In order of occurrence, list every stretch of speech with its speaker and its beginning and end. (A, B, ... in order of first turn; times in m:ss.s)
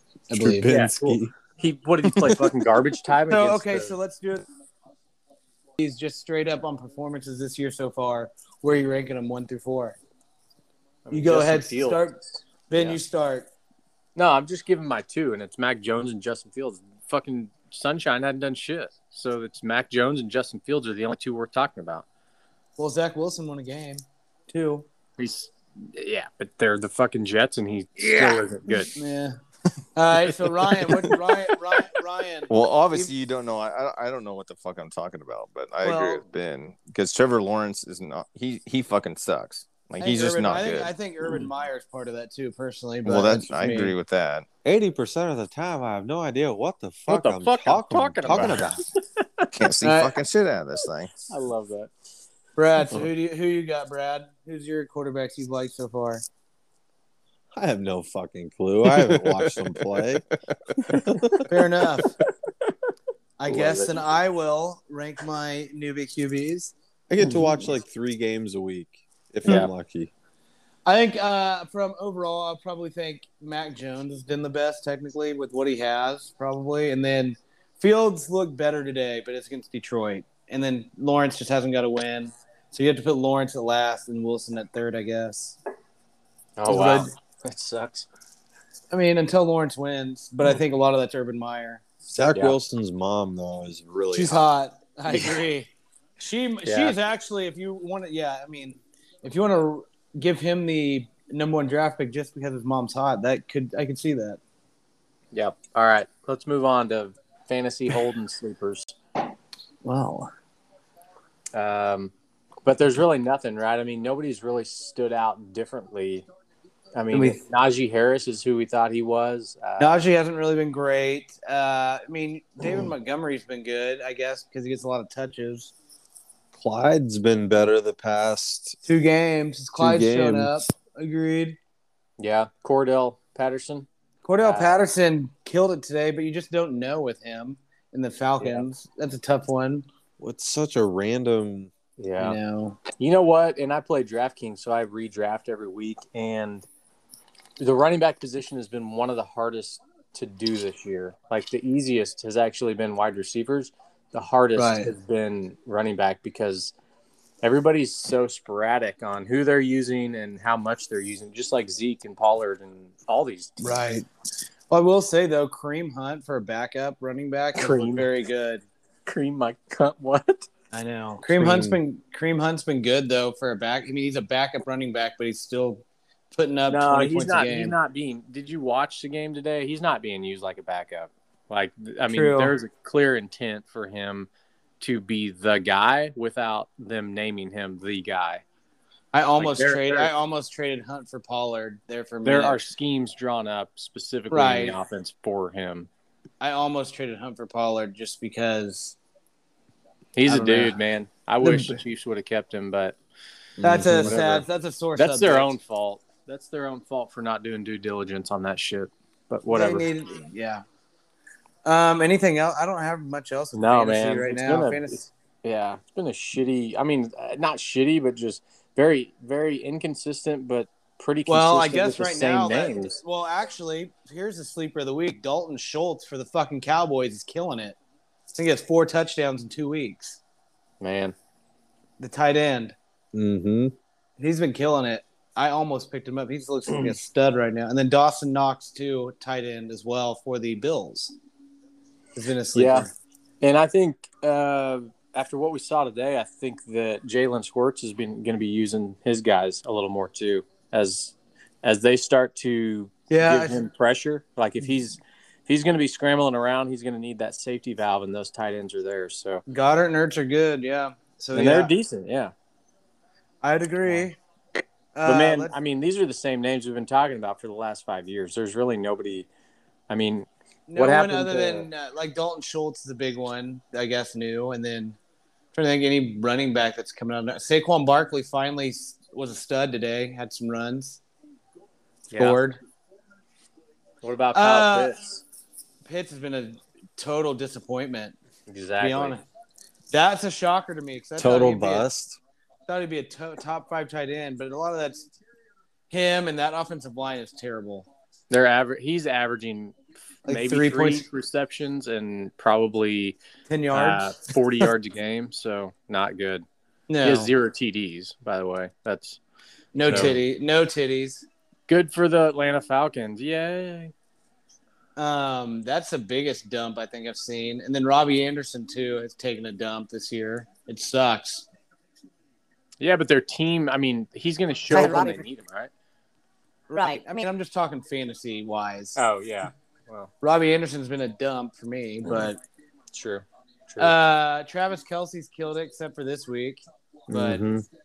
0:00.3-0:00.9 A
0:00.4-0:01.3 B
0:00.7-0:03.9 C
0:03.3-0:04.4 A
0:05.8-0:10.0 A
0:11.0-0:12.0 C
0:11.1-0:13.5 A
0:14.2-0:22.0 C
0:22.8-0:24.8 A
0:25.2-0:28.9 C
0:28.0-0:29.4 A
0:29.9-0:33.1 A
0:32.5-0:40.9 D
0:35.8-0:36.2 A
0:40.0-0:43.9 A
0:43.0-0:44.4 D
0:44.6-0:48.8 B
0:47.1-0:49.4 C
0:49.5-0:51.2 D
0:49.8-0:50.2 A
0:51.3-0:51.9 C
0:52.6-0:56.2 A
0:57.5-1:00.2 B
1:00.9-1:01.5 B
1:01.5-1:02.1 A
1:03.4-1:06.7 A
1:03.5-1:04.0 C
1:07.1-1:10.1 B
1:09.4-1:09.7 C
1:10.8-1:25.6 A
1:26.6-1:28.1 C
1:26.6-1:27.1 A
1:28.9-1:31.8 A
1:32.1-1:34.4 B
1:32.2-1:32.6 C
1:34.1-1:44.4 A
1:36.6-1:37.0 C
1:45.3-1:49.0 C
1:49.8-1:50.3 A
1:51.5-1:52.1 C
1:52.6-1:56.2 C
1:56.9-1:59.9 C
1:57.1-1:57.4 A
1:59.8-2:05.7 A
2:06.5-2:08.8 B
2:08.8-2:11.6 A
2:09.8-2:10.7 B
2:12.2-2:13.9 C
2:14.2-2:19.8 A
2:14.4-2:14.8 C
2:18.4-2:18.6 C
2:20.2-2:21.7 B
2:22.0-2:22.4 C
2:22.2-2:22.8 A
2:23.0-2:26.7 C
2:27.6-2:36.7 C
2:34.6-2:34.9 A
2:37.4-2:43.8 C
2:43.6-2:44.0 A
2:44.7-2:48.6 A
2:47.6-2:48.1 C
2:49.0-2:50.5 C
2:50.7-2:57.7 A
2:51.3-2:51.8 B
2:56.7-3:04.3 C
3:02.1-3:02.5 A
3:04.8-3:08.4 C
3:09.1-3:12.6 A
3:09.4-3:10.1 C
3:12.2-3:15.9 C
3:14.3-3:14.8 A
3:16.4-3:19.0 A
3:20.2-3:23.0 C
3:20.2-3:20.8 A
3:21.4-3:21.8 A
3:23.6-3:24.4 B
3:23.6-3:25.5 A
3:24.0-3:24.4 C
3:25.0-3:29.9 C
3:29.5-3:30.6 A
3:31.6-3:35.0 A
3:33.5-3:43.0 C
3:41.3-3:47.8 A
3:48.3-3:50.2 A
3:50.8-3:51.1 C
3:52.0-3:52.7 A
3:53.1-3:53.7 B
3:54.2-4:01.1 A
4:02.1-4:02.9 A
4:02.5-4:02.9 C
4:03.4-4:19.4 C
4:13.1-4:13.6 A
4:19.5-4:21.7 A
4:21.3-4:22.3 C
4:23.4-4:24.2 A
4:24.9-4:25.5 A
4:25.0-4:29.3 C
4:29.9-4:31.7 C
4:30.7-4:35.0 A
4:35.5-4:41.0 A
4:42.1-4:42.4 C
4:42.2-4:42.6 A
4:44.0-4:45.2 C
4:44.3-4:45.0 A
4:45.8-4:48.2 A
4:48.5-4:49.2 C
4:48.8-4:49.2 A
4:49.9-4:51.9 A
4:51.2-4:52.2 B
4:52.7-4:55.1 A
4:55.9-4:57.9 A
4:58.3-5:03.2 C
5:00.3-5:01.0 A
5:03.5-5:04.1 A
5:03.7-5:06.4 C
5:06.9-5:07.3 A
5:07.0-5:09.2 C
5:09.7-5:11.2 A
5:09.8-5:10.2 C
5:11.7-5:13.9 C
5:15.0-5:21.5 A
5:22.8-5:25.7 C
5:24.7-5:25.1 A
5:26.7-5:29.0 A
5:29.0-5:30.1 C
5:30.2-5:32.4 A
5:32.9-5:33.9 C
5:33.8-5:37.4 A
5:37.1-5:37.6 B